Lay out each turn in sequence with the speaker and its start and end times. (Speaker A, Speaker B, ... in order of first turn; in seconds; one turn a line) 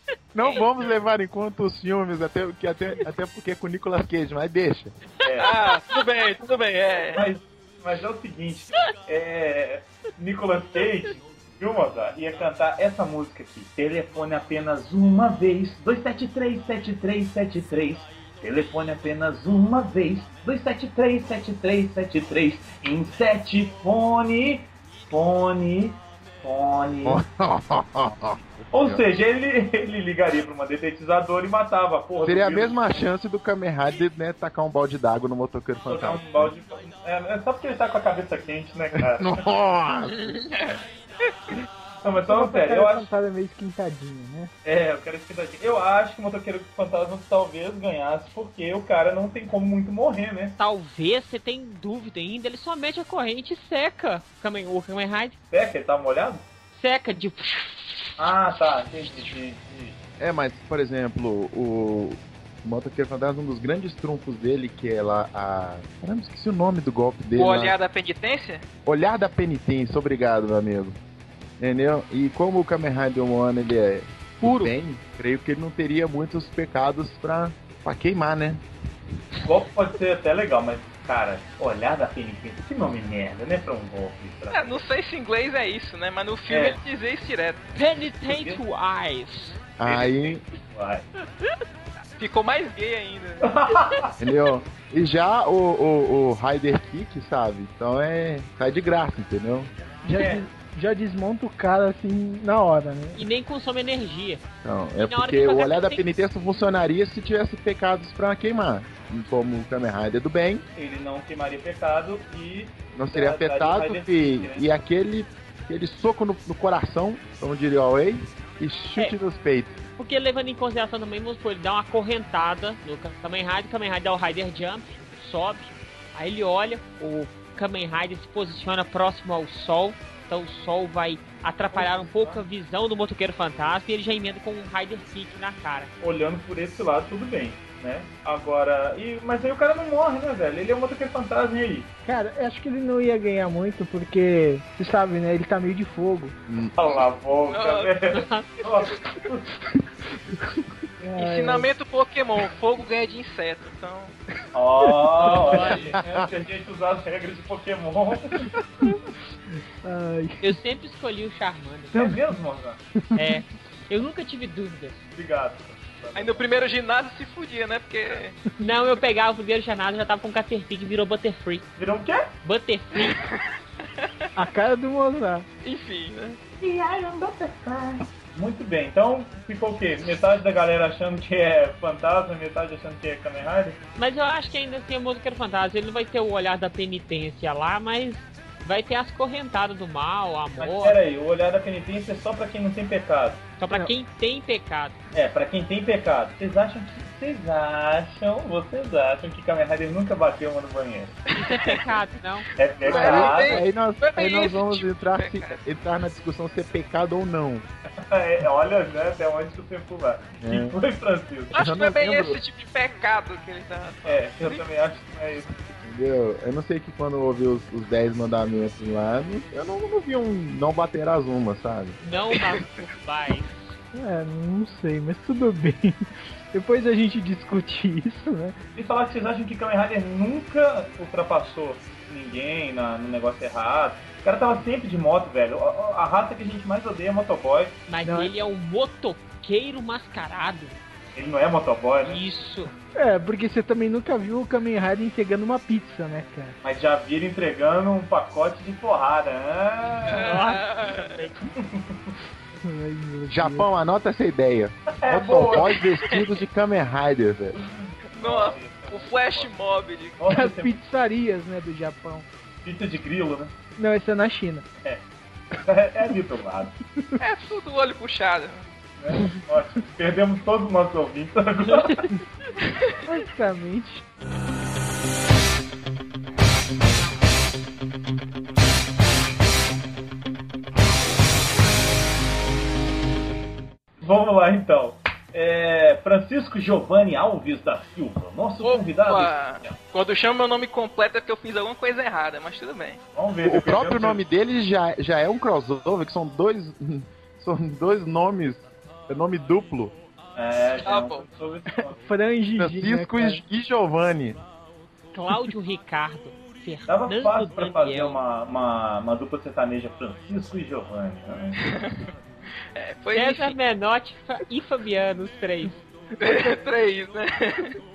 Speaker A: 0.3-4.9
Speaker B: 5.2-5.6
Speaker C: 5.4-7.3
Speaker B: 7.1-27.2
Speaker A: 27.0-29.0
Speaker B: 28.7-32.9
Speaker A: 32.2-36.5
Speaker B: 35.9-39.4
Speaker A: 39.0-40.5
Speaker C: 40.5-40.8
Speaker B: 42.0-43.1
Speaker D: 42.2-44.5
Speaker B: 44.6-50.5
Speaker E: 50.6-55.3
Speaker B: 55.5-56.4
Speaker E: 56.7-58.0
Speaker B: 58.2-60.0
Speaker A: 60.2-67.8
Speaker C: 67.3-68.7
Speaker A: 68.8-71.0
Speaker A: 71.6-78.6
Speaker E: 74.4-74.7
Speaker B: 79.4-84.7
Speaker C: 84.5-87.6
Speaker B: 86.5-86.8
Speaker E: 87.7-89.6
Speaker B: 88.2-88.6
Speaker A: 89.8-90.4
Speaker B: 89.8-91.0
Speaker C: 92.2-93.5
Speaker B: 93.4-94.1
Speaker A: 94.2-99.7
Speaker D: 100.0-103.2
Speaker B: 100.1-100.4
Speaker E: 103.1-104.4
Speaker A: 104.6-110.6
Speaker E: 105.0-106.0
Speaker B: 110.8-114.7
Speaker A: 113.0-119.8
Speaker E: 120.0-135.9
Speaker B: 131.7-132.4
Speaker B: 136.0-141.9
Speaker D: 142.1-146.4
Speaker A: 146.5-146.7
Speaker B: 146.8-149.5
Speaker C: 147.5-147.9
Speaker E: 148.1-148.5
Speaker D: 150.3-151.7
Speaker C: 151.1-154.2
Speaker B: 154.5-158.4
Speaker D: 154.8-155.4
Speaker E: 155.4-156.0
Speaker A: 155.9-156.3
Speaker D: 158.8-159.1
Speaker D: 159.8-160.6
Speaker E: 160.4-161.9
Speaker D: 161.9-162.2
Speaker B: 161.9-162.8
Speaker D: 163.0-163.4
Speaker E: 163.1-165.0
Speaker B: 165.1-166.5
Speaker C: 166.1-168.3
Speaker E: 168.6-171.7
Speaker B: 171.8-172.3
Speaker E: 172.4-173.2
Speaker C: 173.1-173.4
Speaker D: 174.3-175.4
Speaker C: 175.6-176.4
Speaker B: 176.6-183.8
Speaker E: 183.9-191.0
Speaker B: 190.6-193.4
Speaker E: 193.6-195.0
Speaker B: 195.1-201.2
Speaker E: 201.3-202.4
Speaker C: 201.4-201.8
Speaker B: 202.6-203.6
Speaker C: 202.8-205.6
Speaker A: 202.8-207.7
Speaker B: 208.0-211.6
Speaker A: 210.4-210.8
Speaker C: 211.5-214.6
Speaker A: 211.5-212.4
Speaker B: 214.0-215.6
Speaker A: 215.8-222.0
Speaker E: 222.0-223.8
Speaker D: 223.9-226.0
Speaker D: 226.5-228.6
Speaker B: 228.7-237.8
Speaker E: 237.9-240.8
Speaker D: 238.0-238.3
Speaker B: 241.1-242.2
Speaker E: 242.0-242.7
Speaker D: 243.0-246.6
Speaker B: 246.6-250.4
Speaker C: 250.0-251.3
Speaker E: 250.2-251.3
Speaker B: 251.5-252.1
Speaker D: 252.6-253.7
Speaker A: 253.3-257.6
Speaker B: 255.0-255.7
Speaker C: 255.9-256.3
Speaker B: 257.5-259.6
Speaker C: 258.1-260.2
Speaker B: 260.2-260.7
Speaker D: 260.3-262.3
Speaker B: 262.6-263.5
Speaker D: 263.8-264.6
Speaker B: 265.6-266.7
Speaker C: 267.2-268.7
Speaker B: 269.0-272.1
Speaker D: 273.1-274.0
Speaker B: 284.0-289.8
Speaker C: 288.6-293.0
Speaker B: 293.1-294.2
Speaker A: 293.4-299.9
Speaker B: 300.4-302.0
Speaker C: 300.8-301.3
Speaker D: 301.7-303.4
Speaker A: 302.6-304.4
Speaker E: 305.1-308.2
Speaker B: 306.9-311.6
Speaker C: 311.6-312.1
Speaker C: 312.7-313.6
Speaker E: 313.1-315.8
Speaker C: 316.2-317.8